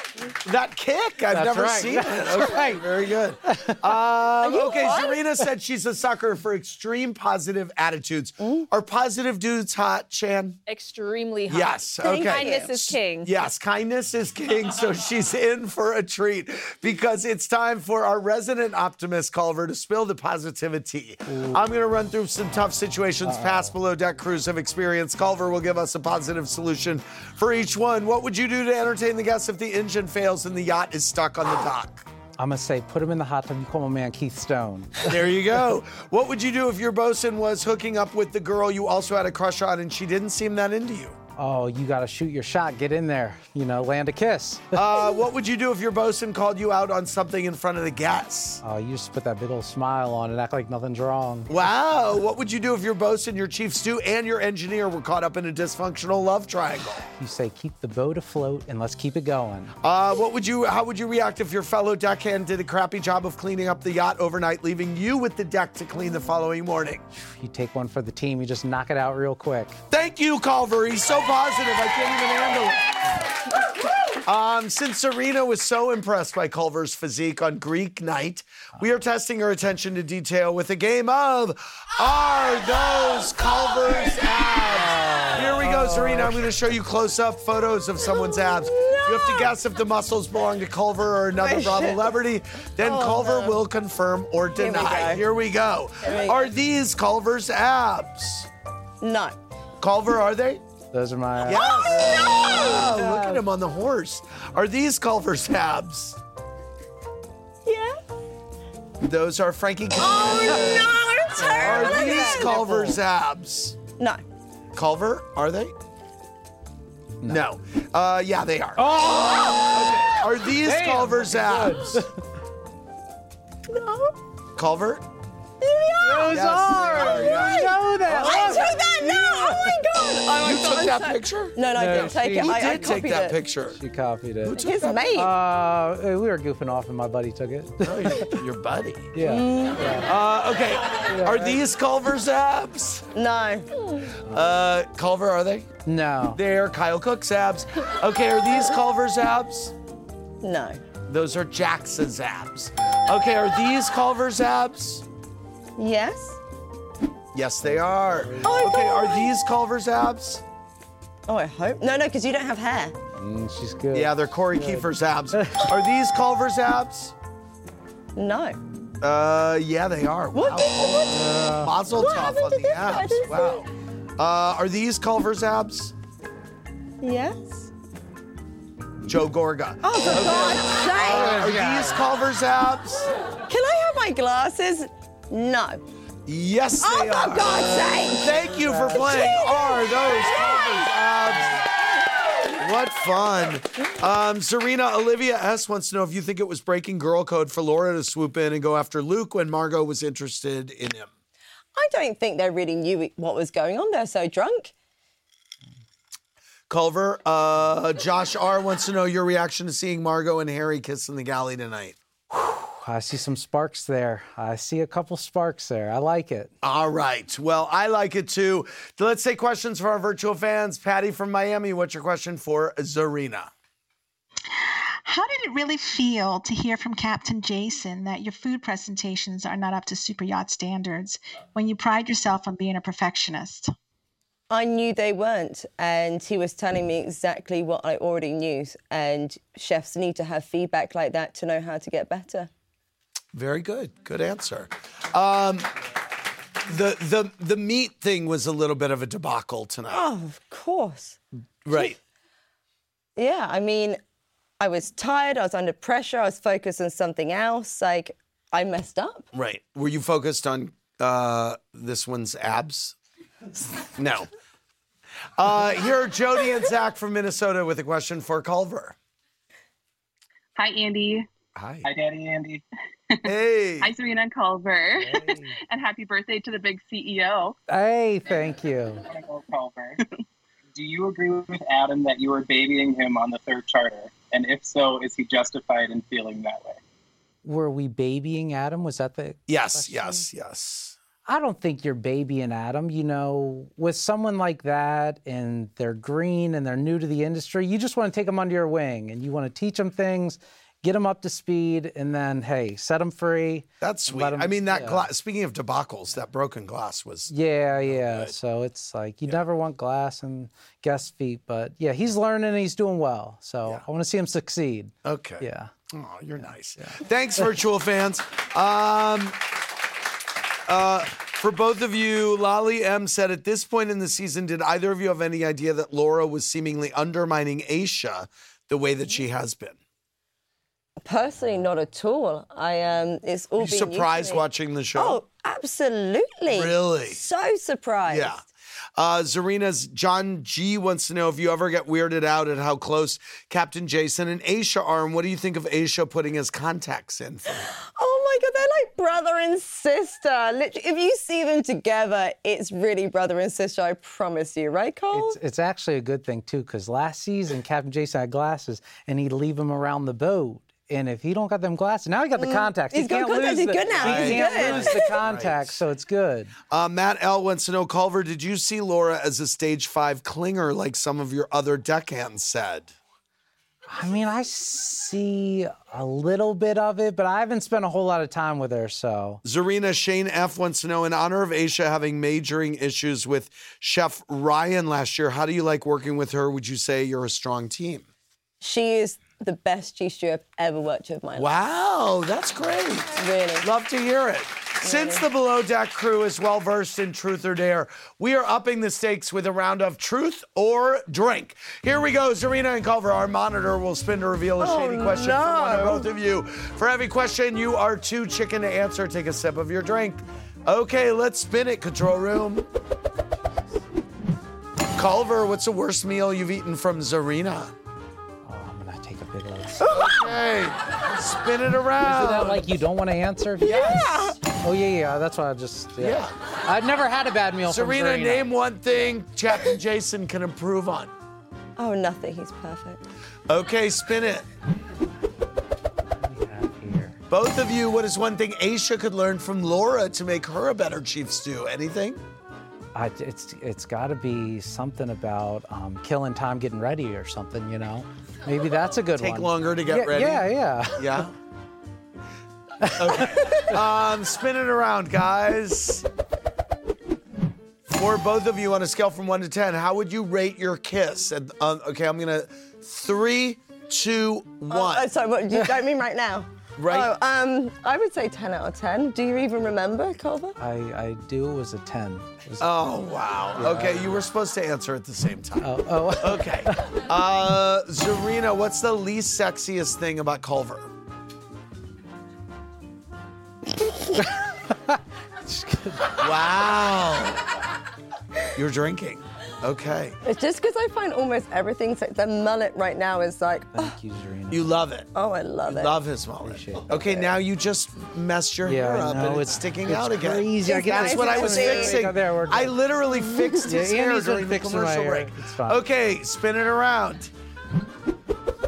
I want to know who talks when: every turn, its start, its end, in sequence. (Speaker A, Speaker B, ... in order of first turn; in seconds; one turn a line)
Speaker A: 0.4-10.6
Speaker B: 1.3-2.8
Speaker B: 3.5-3.8
Speaker C: 4.4-5.2
Speaker C: 8.4-8.7
Speaker D: 10.7-13.3
Speaker A: 11.5-32.1
Speaker C: 12.0-12.7
Speaker B: 21.3-21.6
Speaker B: 23.2-23.7
Speaker B: 32.4-35.1
Speaker A: 35.0-41.2
Speaker B: 41.4-44.9
Speaker A: 44.7-48.6
Speaker B: 48.6-51.5
Speaker A: 51.5-57.0
Speaker B: 57.1-59.7
Speaker A: 59.8-67.1
Speaker B: 67.2-69.8
Speaker A: 69.9-73.1
Speaker A: 74.2-98.5
Speaker B: 84.6-86.5
Speaker C: 88.0-89.5
Speaker C: 91.4-92.2
Speaker C: 92.8-93.6
Speaker C: 94.5-95.3
Speaker C: 96.0-96.5
Speaker C: 99.0-99.4
Speaker A: 99.8-100.6
Speaker B: 100.9-103.4
Speaker A: 101.4-106.2
Speaker C: 101.5-103.0
Speaker C: 107.7-108.0
Speaker A: 109.0-111.0
Speaker C: 110.0-112.7
Speaker B: 110.5-110.8
Speaker B: 111.4-113.0
Speaker A: 111.6-113.8
Speaker C: 114.0-114.2
Speaker A: 114.7-115.7
Speaker A: 117.3-122.1
Speaker B: 118.8-119.8
Speaker C: 119.2-119.7
Speaker B: 120.5-122.1
Speaker C: 123.7-124.2
Speaker A: 124.6-125.1
Speaker C: 125.6-133.4
Speaker B: 126.0-129.7
Speaker A: 126.3-128.8
Speaker A: 130.4-133.8
Speaker B: 131.7-133.1
Speaker B: 133.8-138.4
Speaker A: 134.4-135.1
Speaker C: 134.6-135.3
Speaker A: 137.8-139.2
Speaker B: 139.2-140.1
Speaker C: 139.2-139.9
Speaker A: 140.0-143.1
Speaker B: 141.1-141.6
Speaker C: 143.2-144.2
Speaker A: 144.3-145.7
Speaker B: 145.8-146.4
Speaker A: 146.3-149.7
Speaker C: 150.4-150.8
Speaker A: 151.1-155.1
Speaker C: 155.8-156.4
Speaker A: 157.3-160.4
Speaker B: 157.7-158.7
Speaker C: 158.4-159.3
Speaker C: 161.3-163.0
Speaker B: 163.2-165.7
Speaker A: 163.9-167.1
Speaker C: 168.2-168.6
Speaker A: 169.0-175.9
Speaker C: 170.3-171.3
Speaker B: 171.2-171.8
Speaker C: 171.9-173.6
Speaker C: 177.0-177.7
Speaker A: 179.1-183.1
Speaker C: 179.8-181.4
Speaker B: 181.0-182.0
Speaker C: 183.5-185.8
Speaker A: 186.3-191.7
Speaker C: 186.8-188.4
Speaker B: 188.5-189.1
Speaker C: 188.9-190.9
Speaker A: 192.6-201.1
Speaker C: 201.8-204.7
Speaker A: 206.7-212.0
Speaker B: 212.3-216.5
Speaker A: 216.6-223.5
Speaker E: 224.5-233.7
Speaker C: 234.5-242.5
Speaker A: 243.3-245.7
Speaker A: 246.7-250.1
Speaker C: 249.9-251.2
Speaker A: 251.7-252.0
Speaker C: 253.2-254.0
Speaker C: 254.6-259.3
Speaker A: 259.3-263.0
Speaker A: 263.9-264.3
Speaker A: 265.4-269.0
Speaker F: 270.6-271.3
Speaker A: 271.6-271.9
Speaker G: 271.8-272.6
Speaker A: 273.2-273.9
Speaker F: 273.8-277.6
Speaker B: 275.0-275.6
Speaker B: 277.7-279.0
Speaker G: 279.1-280.0
Speaker G: 280.7-286.8
Speaker B: 287.4-290.2
Speaker A: 289.5-291.0
Speaker B: 291.3-305.1
Speaker A: 303.8-308.3
Speaker B: 307.3-315.7
Speaker A: 315.0-319.4
Speaker A: 320.7-329.8
Speaker C: 331.0-334.4
Speaker A: 333.6-335.2
Speaker C: 335.0-338.4
Speaker A: 336.5-337.2
Speaker A: 338.1-338.4
Speaker A: 339.0-347.7
Speaker C: 347.9-355.4
Speaker B: 355.1-366.5
Speaker C: 362.4-365.2
Speaker A: 364.0-365.8
Speaker A: 366.7-372.9
Speaker B: 373.9-379.4
Speaker A: 379.4-388.1
Speaker C: 388.6-391.5
Speaker A: 391.4-412.7
Speaker C: 393.2-393.7
Speaker C: 394.8-395.2
Speaker C: 404.6-406.1
Speaker A: 414.9-417.7
Speaker B: 418.4-420.2
Speaker C: 419.8-420.1
Speaker A: 419.9-422.7
Speaker B: 422.0-428.5
Speaker C: 423.6-424.4
Speaker A: 423.6-424.2
Speaker A: 426.0-426.4
Speaker A: 427.7-431.1
Speaker C: 431.8-433.0
Speaker A: 433.5-434.5
Speaker B: 436.2-437.2
Speaker A: 437.3-442.2
Speaker B: 442.9-451.2
Speaker A: 449.2-451.3
Speaker B: 452.8-453.8
Speaker A: 452.9-456.1
Speaker A: 457.9-465.1
Speaker C: 464.7-470.6
Speaker A: 466.8-467.1
Speaker B: 470.6-472.7
Speaker A: 472.6-480.9
Speaker B: 473.6-474.2
Speaker B: 475.6-476.9
Speaker B: 484.2-486.2
Speaker A: 486.2-487.4
Speaker A: 488.6-490.2
Speaker C: 490.2-494.0
Speaker B: 493.8-494.8
Speaker A: 494.5-495.1
Speaker C: 495.1-495.9
Speaker A: 495.6-507.3
Speaker B: 496.4-496.9
Speaker B: 498.6-502.8
Speaker C: 500.6-502.1
Speaker C: 503.1-503.7
Speaker B: 503.6-505.8